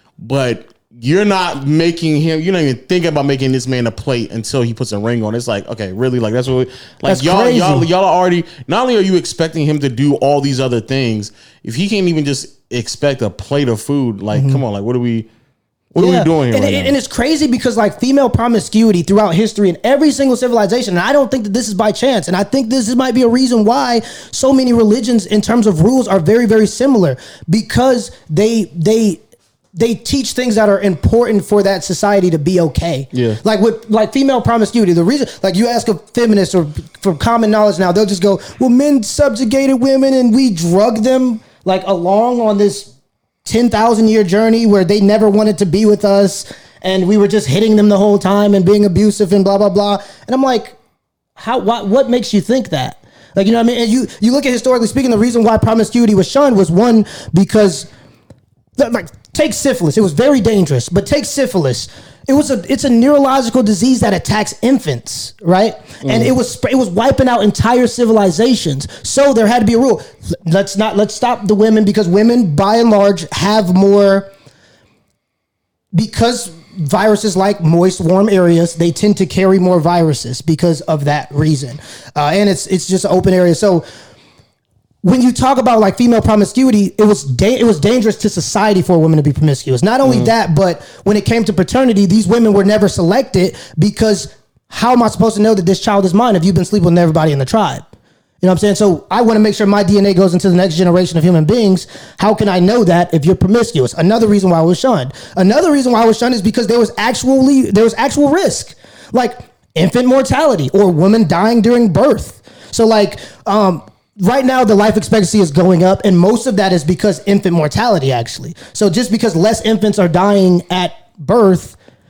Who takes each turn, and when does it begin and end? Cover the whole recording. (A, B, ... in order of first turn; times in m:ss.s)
0:00.2-0:15.3 A
0:07.0-0:07.9 B
0:14.3-0:14.6 B
0:15.9-0:16.9 A
0:16.0-0:29.2 B
0:29.7-0:42.9 B
0:33.1-0:33.4 A
0:43.4-0:50.8 B
0:51.4-0:57.9 B
0:58.8-1:14.3 B
1:06.0-1:06.3 A
1:15.9-1:23.8 B
1:25.0-1:37.8 B
1:30.0-1:30.3 A
1:38.4-2:01.8 B